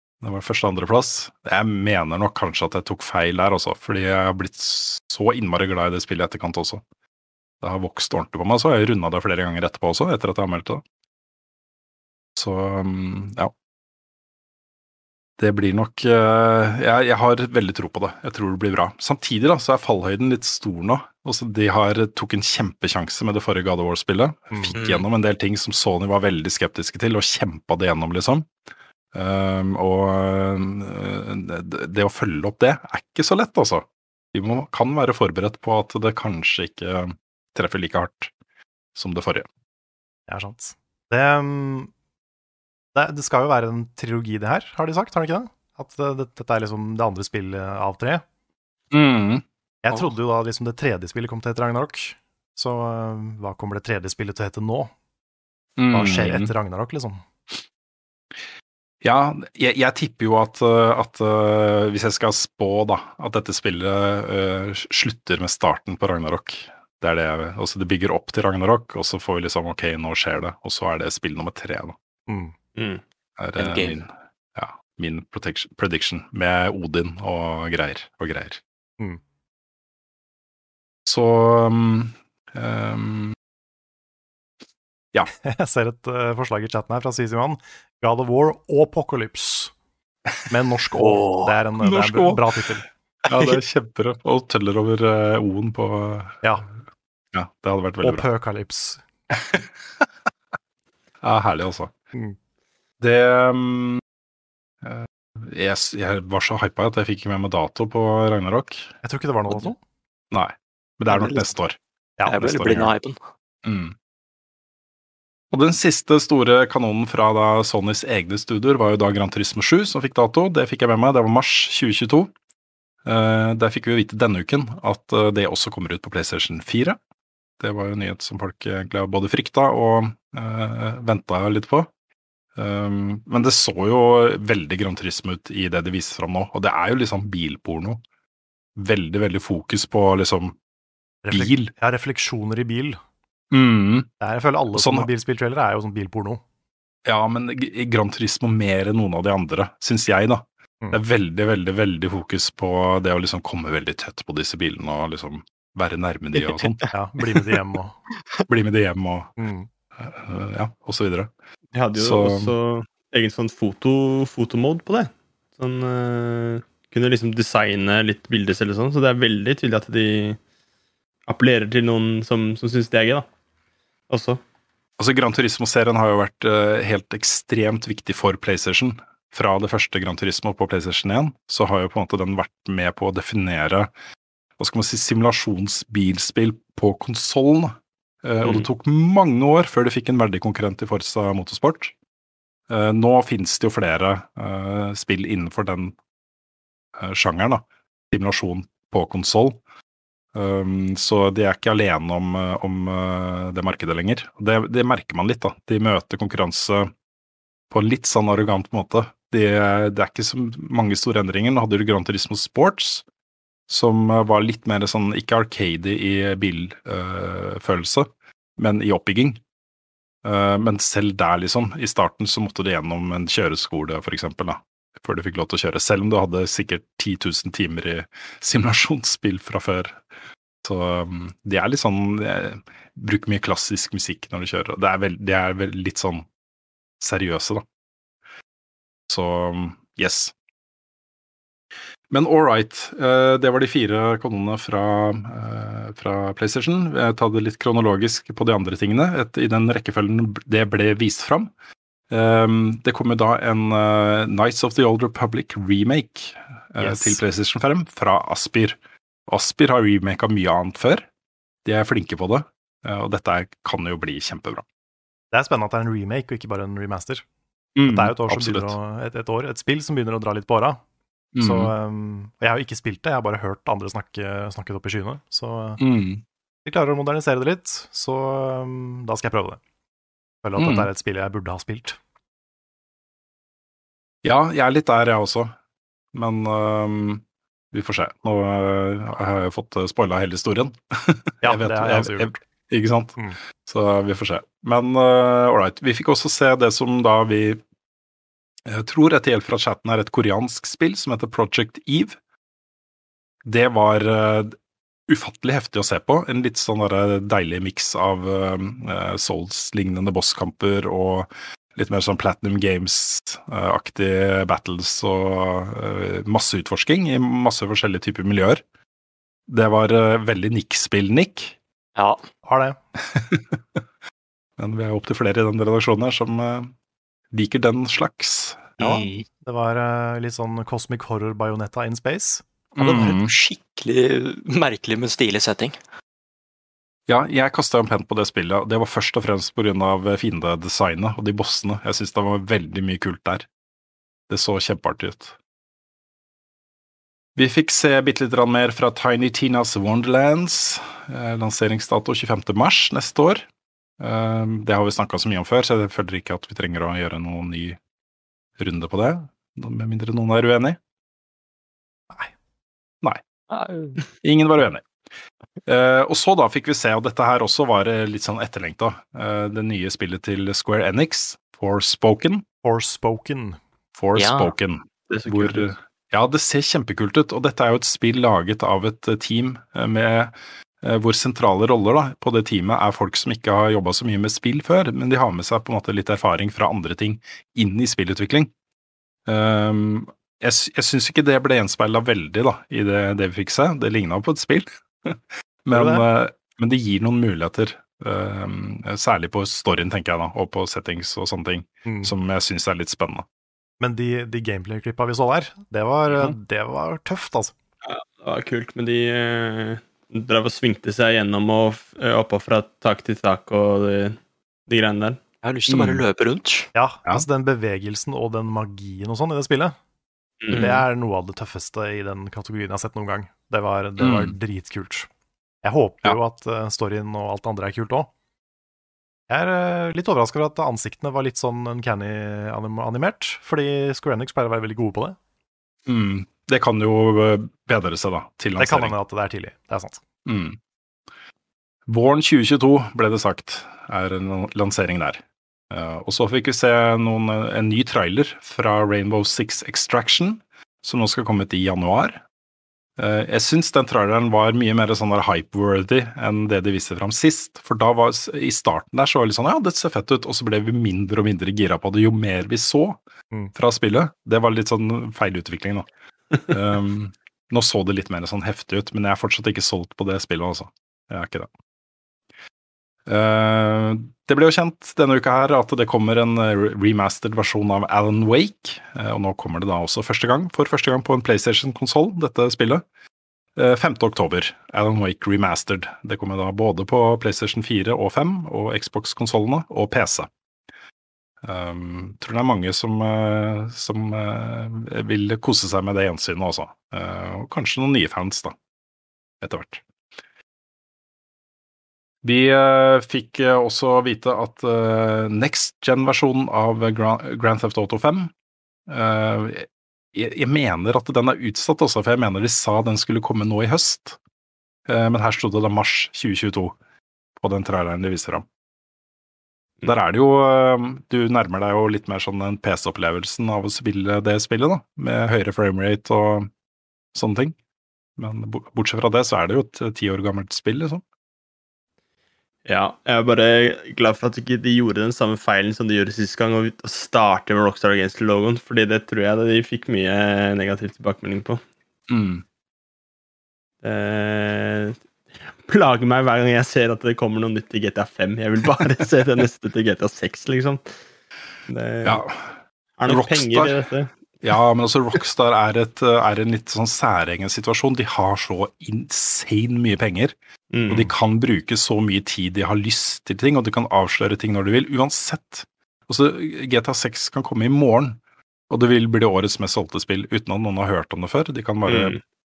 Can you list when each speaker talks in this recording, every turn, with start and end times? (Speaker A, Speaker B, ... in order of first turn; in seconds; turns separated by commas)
Speaker A: 0.2-6.8, Speaker A: 7.6-10.8, Speaker A: 12.3-13.5, Speaker A: 15.4-28.5, Speaker B: 24.7-25.0, Speaker A: 29.1-38.3, Speaker A: 38.9-39.5, Speaker C: 40.3-41.9, Speaker C: 42.9-48.2, Speaker A: 48.9-49.4, Speaker C: 49.8-54.9, Speaker A: 55.8-56.5, Speaker C: 55.9-57.2, Speaker A: 59.0-71.9, Speaker C: 72.3-72.5, Speaker D: 72.8-73.0, Speaker A: 73.4-78.6, Speaker B: 73.6-74.0, Speaker A: 81.0-83.3, Speaker C: 85.4-89.7, Speaker C: 90.5-92.8, Speaker B: 91.0-91.5, Speaker A: 91.8-92.4, Speaker A: 93.2-96.4, Speaker A: 97.3-98.2, Speaker C: 98.0-99.0, Speaker A: 99.3-100.0, Speaker A: 101.2-101.9, Speaker A: 103.0-104.0, Speaker A: 104.8-108.9, Speaker C: 109.0-109.8, Speaker A: 110.3-112.9, Speaker B: 111.1-111.5, Speaker B: 112.3-113.2, Speaker A: 113.6-113.9, Speaker A: 115.5-122.3, Speaker A: 123.0-127.0, Speaker A: 127.6-131.9, Speaker A: 132.6-138.0, Speaker A: 138.8-140.6, Speaker C: 141.2-143.0, Speaker A: 141.3-141.7, Speaker A: 143.5-144.1, Speaker C: 144.2-146.4, Speaker A: 144.7-145.1, Speaker A: 147.0-156.8, Speaker B: 156.4-156.9, Speaker C: 156.9-158.0, Speaker A: 158.5-159.3, Speaker C: 159.4-159.7, Speaker A: 160.0-161.3, Speaker D: 161.7-170.4, Speaker A: 161.9-162.5, Speaker D: 171.3-173.3, Speaker D: 174.1-174.4, Speaker A: 175.0-183.9, Speaker A: 184.6-191.9, Speaker A: 192.7-195.9, Speaker A: 196.9-199.6, Speaker A: 200.3-206.9, Speaker A: 207.7-213.0, Speaker A: 213.7-219.4, Speaker A: 220.2-230.0, Speaker A: 230.6-236.2, Speaker A: 237.0-237.6, Speaker A: 239.1-240.3, Speaker A: 242.1-251.5, Speaker A: 252.1-261.1, Speaker C: 256.8-257.2, Speaker A: 261.6-264.6, Speaker C: 265.3-267.2, Speaker A: 267.8-268.7, Speaker C: 267.9-270.8, Speaker A: 271.3-271.7, Speaker C: 271.4-275.8, Speaker A: 275.8-276.2, Speaker C: 276.6-279.6, Speaker C: 280.4-282.0, Speaker A: 280.6-280.9, Speaker A: 284.2-285.5, Speaker A: 286.1-297.6, Speaker C: 291.4-292.4, Speaker A: 298.6-302.2, Speaker A: 303.4-304.5, Speaker A: 305.1-318.6, Speaker A: 319.5-321.6, Speaker B: 322.0-322.2, Speaker C: 322.4-322.8, Speaker A: 323.1-323.8, Speaker A: 324.6-326.7, Speaker A: 327.3-328.7, Speaker B: 328.8-329.2, Speaker C: 328.8-333.1, Speaker A: 332.8-333.3, Speaker B: 333.0-335.8, Speaker A: 337.1-343.4, Speaker A: 344.3-345.4, Speaker A: 347.4-353.5, Speaker A: 354.0-357.8, Speaker A: 358.6-360.8, Speaker B: 363.5-364.0, Speaker A: 364.2-364.8, Speaker A: 365.6-372.4, Speaker C: 372.6-373.6, Speaker A: 373.9-388.5, Speaker B: 374.1-374.5, Speaker D: 375.1-375.7, Speaker A: 389.3-403.2, Speaker C: 395.7-396.1, Speaker C: 401.8-402.1, Speaker C: 403.8-407.5, Speaker D: 407.8-416.0, Speaker B: 415.4-416.7, Speaker C: 416.7-419.8, Speaker D: 420.4-420.8, Speaker C: 420.5-425.1, Speaker A: 424.0-424.3, Speaker C: 425.6-428.1, Speaker C: 429.3-435.2, Speaker A: 435.9-438.9, Speaker C: 438.6-440.0, Speaker A: 440.2-440.6, Speaker A: 441.9-452.2, Speaker A: 453.0-463.0, Speaker A: 463.5-465.9, Speaker A: 466.5-471.5, Speaker A: 473.1-482.8, Speaker A: 483.6-490.3, Speaker A: 491.4-498.5, Speaker A: 499.4-499.8, Speaker A: 502.2-508.3, Speaker A: 508.9-514.2, Speaker A: 514.9-516.8, Speaker A: 517.4-518.5, Speaker A: 519.8-526.5, Speaker A: 527.1-527.5, Speaker A: 528.2-531.0, Speaker D: 532.6-541.6, Speaker A: 542.1-542.4, Speaker D: 543.8-545.0, Speaker D: 545.5-550.9, Speaker D: 551.7-552.2, Speaker A: 552.0-552.5, Speaker D: 553.0-554.1, Speaker A: 553.1-553.8, Speaker A: 554.4-560.3, Speaker D: 560.7-561.1, Speaker A: 560.9-572.1, Speaker D: 571.9-572.2